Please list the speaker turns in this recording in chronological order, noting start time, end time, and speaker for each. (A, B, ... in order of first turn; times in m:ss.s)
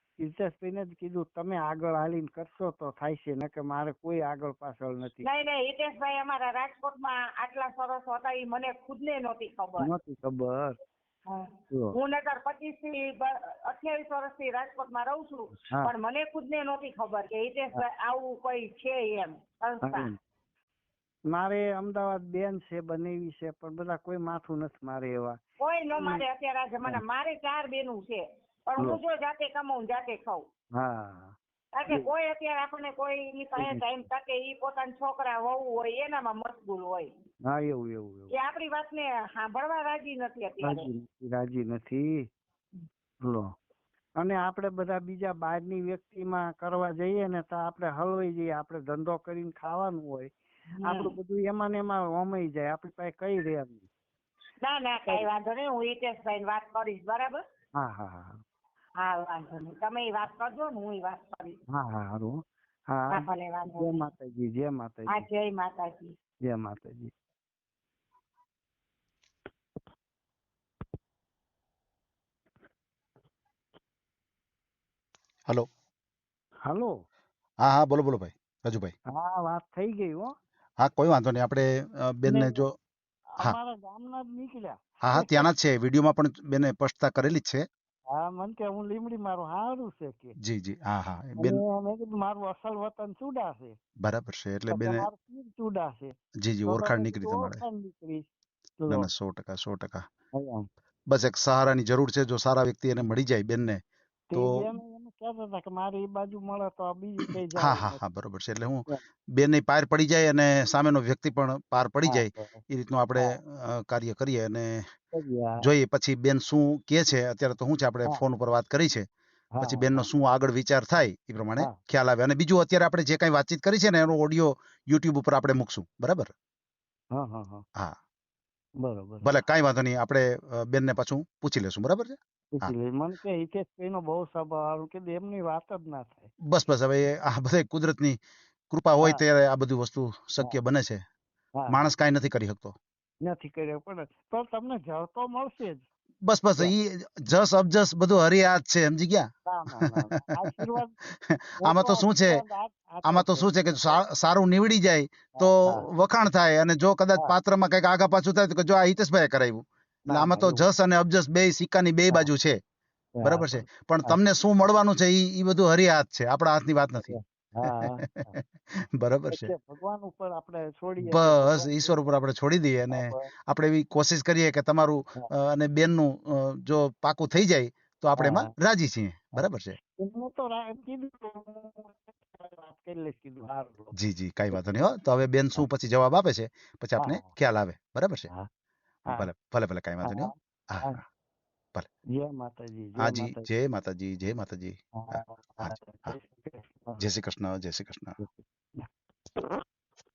0:00.2-0:05.2 A
0:05.2-0:09.9 B
0:09.8-0:10.8 A
0:11.3-0:20.1 B
0:19.8-0:20.2 A
0:21.3-0:25.4 A
0:25.6-0:30.4 B
0:25.9-0:26.2 A
0:30.8-0:31.3 A
0:31.7-0:37.1 B
0:33.6-0:33.9 A
0:37.5-0:38.3 A
0:38.3-0:40.9 B
0:40.6-0:42.3 A
0:43.2-0:43.5 A
0:44.2-0:53.8 A
0:54.6-0:57.4 B
0:57.8-0:58.4 A
0:59.0-1:01.6 B
1:01.7-1:02.4 A
1:02.9-1:03.2 A
1:03.1-1:04.0 B
1:03.8-1:05.2 A
1:05.1-1:06.1 B
1:06.4-1:07.1 A
1:16.7-1:16.9 A
1:17.6-1:18.9 C
1:19.1-1:20.3 A
1:20.8-1:22.7 C
1:22.2-1:22.6 A
1:23.4-1:25.5 A
1:25.0-1:27.7 C
1:28.1-1:30.3 A
1:30.4-1:31.6 C
1:31.4-1:33.8 A
1:34.0-1:35.1 C
1:34.7-1:36.1 A
1:36.4-1:37.6 C
1:36.6-1:38.3 A
1:38.8-1:39.1 A
1:38.9-1:40.0 C
1:40.4-1:40.6 A
1:41.1-1:43.8 C
1:44.3-1:48.0 A
1:44.3-1:44.6 C
1:47.5-1:54.8 C
1:52.0-1:52.6 A
1:55.1-1:55.6 A
1:55.6-1:59.0 C
1:59.6-2:00.1 A
1:59.6-2:06.3 C
2:07.1-2:07.6 A
2:08.8-2:09.3 A
2:09.2-2:12.7 C
2:12.5-2:16.3 A
2:16.5-2:18.2 C
2:18.7-2:21.0 C
2:21.7-2:22.7 C
2:23.2-2:25.8 A
2:26.2-2:30.2 C
2:29.4-2:31.0 A
2:31.3-2:32.4 C
2:31.6-2:34.4 A
2:33.0-2:42.6 C
2:35.4-2:35.9 A
2:40.1-2:40.6 A
2:43.2-2:44.2 A
2:43.2-2:47.2 C
2:47.0-2:48.3 A
2:48.0-2:48.4 C
2:49.0-2:49.5 C
2:49.3-2:52.0 A
2:51.0-2:59.7 C
2:52.9-2:53.3 A
2:58.2-2:58.5 A
2:59.4-3:03.9 A
3:03.9-3:08.3 C
3:07.0-3:07.3 A
3:09.1-3:11.0 C
3:10.0-3:11.0 A
3:12.1-3:13.5 A
3:13.0-3:16.1 C
3:15.0-3:17.0 A
3:17.0-3:18.2 C
3:18.2-3:19.6 A